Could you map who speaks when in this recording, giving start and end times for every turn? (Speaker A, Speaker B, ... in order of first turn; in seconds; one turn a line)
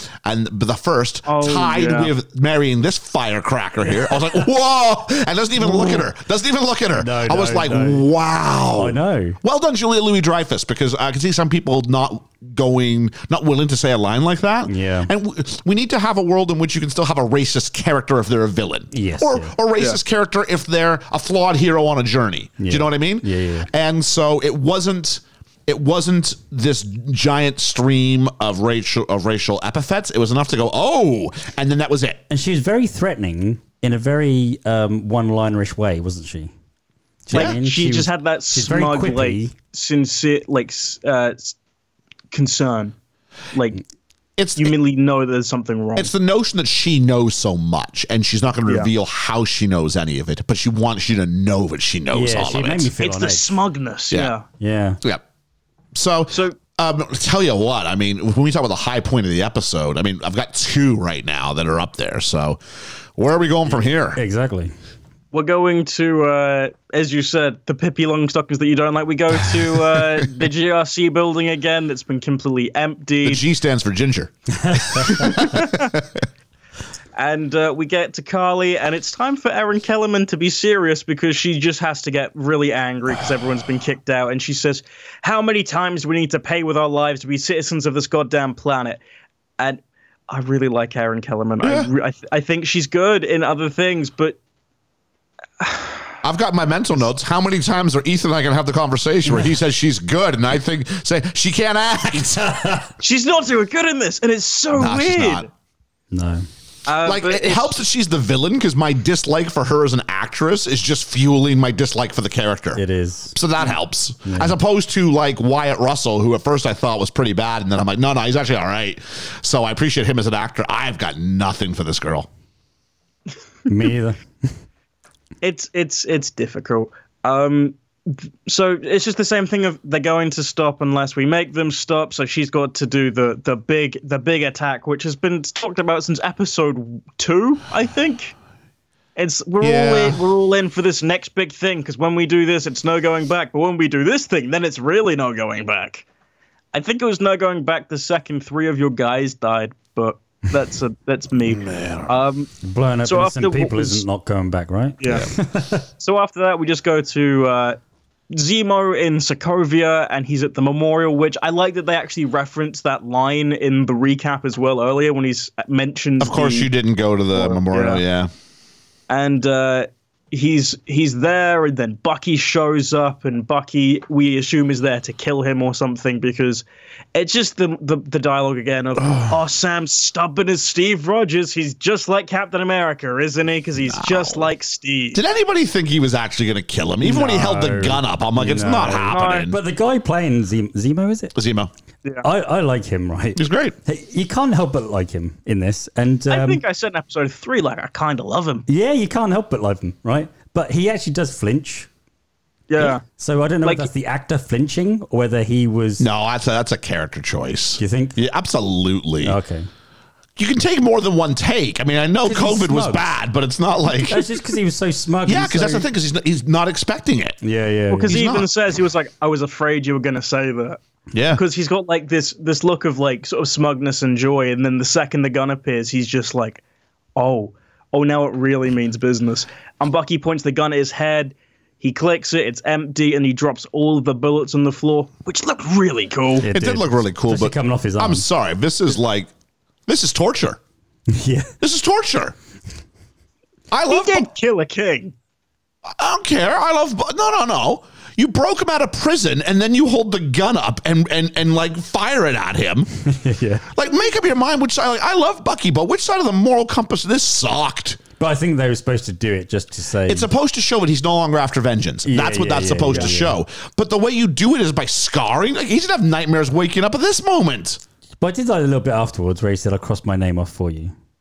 Speaker A: 0.2-32.2
Speaker B: 1.3-2.1
Speaker C: 5.6-6.0
Speaker C: 7.0-8.1
Speaker C: 8.8-9.4
Speaker C: 14.7-15.1
Speaker C: 18.9-19.5
Speaker C: 22.6-23.7
Speaker C: 32.3-36.5
Speaker C: 37.3-39.5
Speaker B: 37.3-41.5
Speaker B: 42.3-42.9
Speaker B: 43.5-43.8
Speaker A: 44.4-44.8
Speaker B: 44.6-46.1
Speaker A: 46.0-52.9
Speaker C: 52.1-53.5
Speaker B: 53.0-54.5
Speaker C: 54.6-55.0
Speaker A: 56.0-62.6
Speaker B: 56.3-56.6
Speaker A: 63.2-64.2
Speaker C: 64.2-64.7
Speaker B: 65.3-73.4
Speaker A: 69.8-70.3
Speaker A: 73.2-76.2
Speaker C: 74.6-75.1
Speaker B: 75.3-75.9
Speaker B: 77.2-89.0
Speaker B: 89.6-94.4
Speaker A: 91.6-91.9
Speaker B: 95.6-96.0
Speaker A: 96.2-102.7
Speaker B: 103.0-105.5
Speaker A: 104.7-105.5
Speaker C: 106.1-106.5
Speaker B: 106.9-107.8
Speaker A: 107.0-122.3
Speaker C: 112.7-113.4
Speaker C: 114.2-114.6
Speaker C: 123.7-124.2
Speaker B: 125.4-138.3
Speaker B: 139.2-146.1
Speaker A: 139.6-140.2
Speaker B: 146.7-152.5
Speaker A: 151.5-152.1
Speaker C: 152.6-155.9
Speaker B: 153.1-154.0
Speaker B: 155.0-155.3
Speaker A: 155.1-155.3
Speaker B: 156.0-157.8
Speaker B: 158.3-166.7
Speaker A: 166.2-168.3
Speaker B: 167.3-168.0
Speaker B: 169.1-185.2
Speaker A: 179.1-179.3
Speaker A: 183.9-184.5
Speaker A: 185.1-189.6
Speaker C: 187.0-191.3
Speaker B: 189.0-189.5
Speaker A: 191.3-191.7
Speaker C: 192.2-196.6
Speaker A: 193.4-193.8
Speaker B: 196.3-198.7
Speaker C: 198.7-201.9
Speaker B: 202.7-203.0
Speaker C: 203.1-206.1
Speaker B: 203.6-203.9
Speaker A: 206.0-209.4
Speaker C: 207.8-208.2
Speaker C: 209.2-209.7
Speaker A: 210.4-214.3
Speaker C: 212.2-213.1
Speaker C: 214.1-215.9
Speaker A: 215.3-217.4
Speaker C: 217.4-218.2
Speaker B: 217.9-220.8
Speaker A: 218.1-218.5
Speaker A: 221.1-221.4
Speaker B: 221.3-226.6
Speaker B: 227.2-236.5
Speaker C: 236.4-238.2
Speaker A: 236.5-239.3
Speaker A: 239.9-240.6
Speaker C: 241.1-241.5
Speaker A: 241.6-242.3
Speaker A: 243.7-244.3
Speaker B: 243.9-245.1
Speaker A: 245.9-252.9
Speaker C: 253.1-253.7
Speaker A: 253.7-258.0
Speaker C: 258.2-260.3
Speaker A: 260.1-267.8
Speaker C: 262.1-263.4
Speaker C: 268.2-270.9